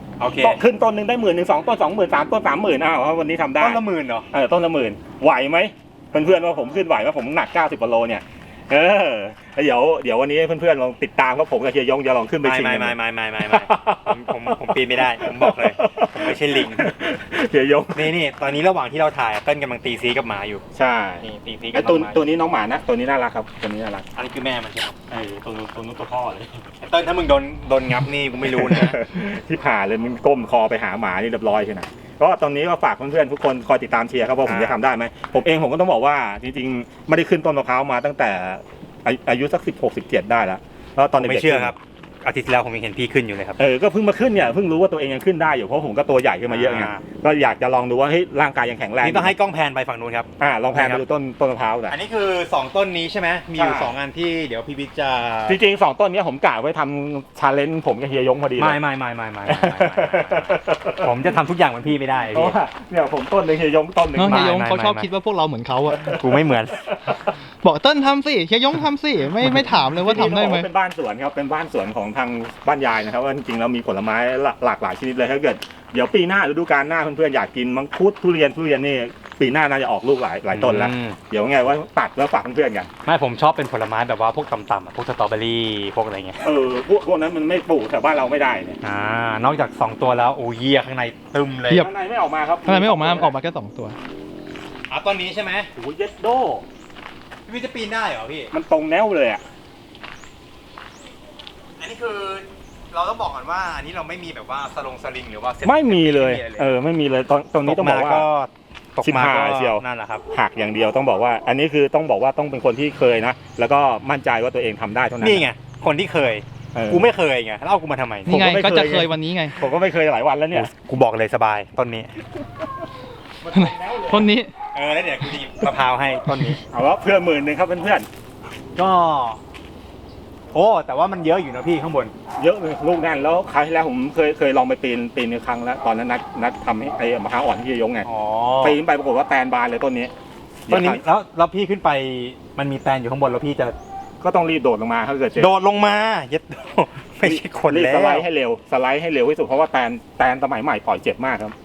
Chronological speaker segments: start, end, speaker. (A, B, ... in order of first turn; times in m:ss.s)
0:00.2-0:00.6 A
0:00.4-0:18.1 B
0:03.6-0:04.3 A
0:06.2-0:06.7 A
0:12.4-0:16.9 A
0:17.9-0:20.6 A
0:20.7-0:24.0 B
0:21.2-0:22.2 A
0:24.1-0:25.0 A
0:25.1-0:26.6 B
0:26.8-0:29.0 A
0:28.4-0:41.8 B
0:34.5-0:34.8 A
0:41.2-0:43.6 A
0:43.6-0:49.4 B
0:46.5-0:47.0 A
0:49.0-0:51.0 A
0:50.4-0:52.0 B
0:51.9-0:55.6 A
0:53.6-0:54.0 B
0:55.5-0:58.8 B
0:58.6-1:02.6 A
0:59.5-1:01.4 B
1:02.3-1:04.6 B
1:04.2-1:06.2 C
1:04.2-1:05.1 A
1:06.0-1:06.9 A
1:07.6-1:10.7 C
1:10.0-1:22.9 B
1:20.5-1:21.2 A
1:23.0-1:26.5 A
1:26.4-1:28.8 B
1:28.8-1:31.9 A
1:31.8-1:33.3 B
1:32.6-1:34.0 C
1:34.9-1:35.7 A
1:35.8-1:36.6 B
1:37.5-1:38.5 A
1:38.5-1:39.4 B
1:41.8-1:46.7 A
1:45.6-1:48.3 B
1:47.6-1:50.2 A
1:49.0-1:55.5 B
1:55.2-1:58.4 A
1:56.8-1:57.1 B
1:58.3-1:59.6 C
1:58.3-2:00.7 B
2:00.5-2:02.2 A
2:03.4-2:04.3 B
2:03.5-2:04.5 C
2:04.7-2:06.6 A
2:06.7-2:08.1 B
2:08.8-2:09.4 A
2:10.5-2:12.1 A
2:12.4-2:18.1 B
2:18.0-2:18.8 A
2:18.6-2:20.1 B
2:20.7-2:21.0 B
2:20.7-2:23.8 A
2:24.2-2:25.6 B
2:25.4-2:28.3 A
2:27.2-2:31.6 B